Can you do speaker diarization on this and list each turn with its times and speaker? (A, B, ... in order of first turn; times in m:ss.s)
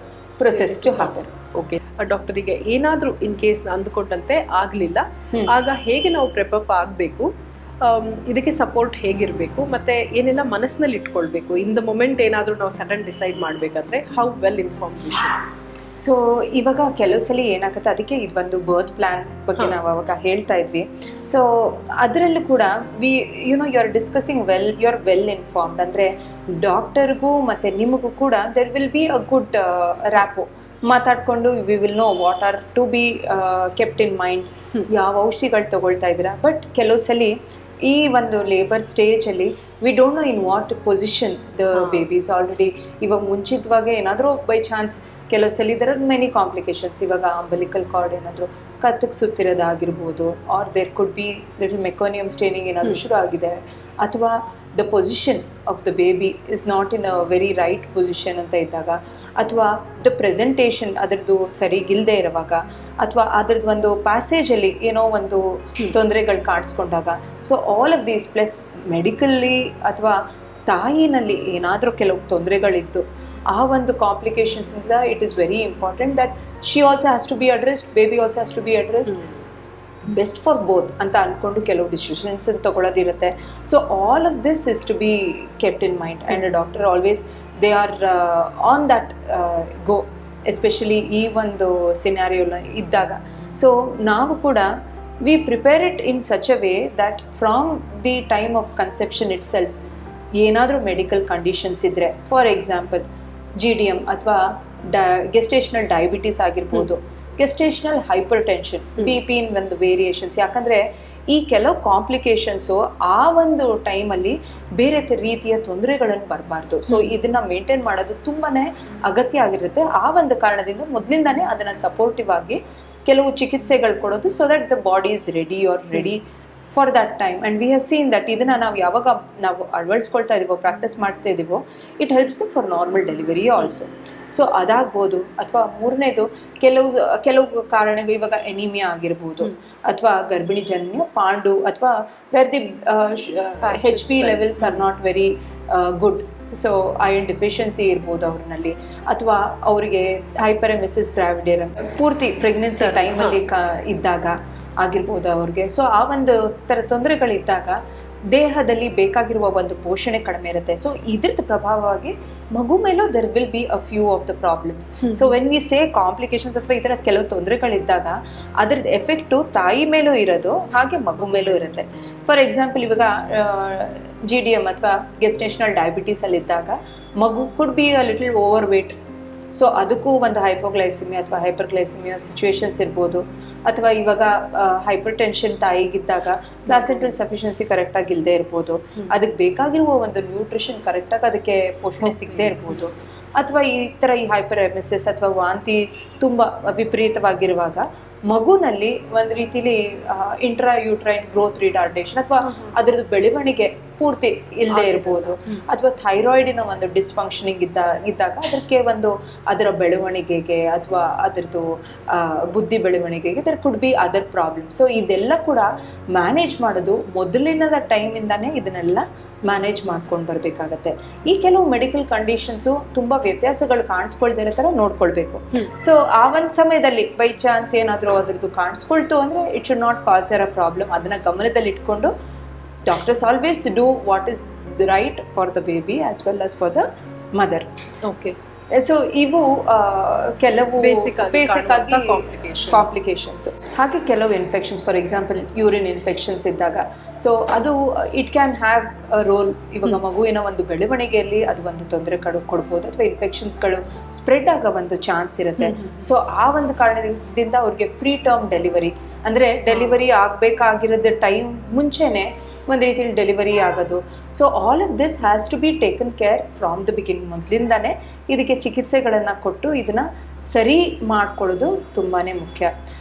0:00.4-0:01.3 A
0:00.5-0:07.3 B
0:07.8-0:15.4 B
0:16.0-1:10.2 A
0:41.8-0:42.0 B
1:10.7-1:19.2 A
1:20.1-1:34.7 A
1:35.2-1:39.7 A
1:40.4-1:43.0 A
1:43.6-2:59.0 A
1:56.9-1:57.1 B
2:23.6-2:24.8 B
2:32.8-2:33.4 B
2:45.0-2:45.3 B
2:59.5-3:52.1 A
3:06.7-3:07.1 B
3:12.0-3:12.8 B
3:24.7-3:25.6 B
3:52.8-3:57.6 A
3:58.0-3:58.4 B
3:58.7-4:32.7 A
4:00.8-4:03.0 B
4:15.6-4:16.0 B
4:19.7-4:20.0 B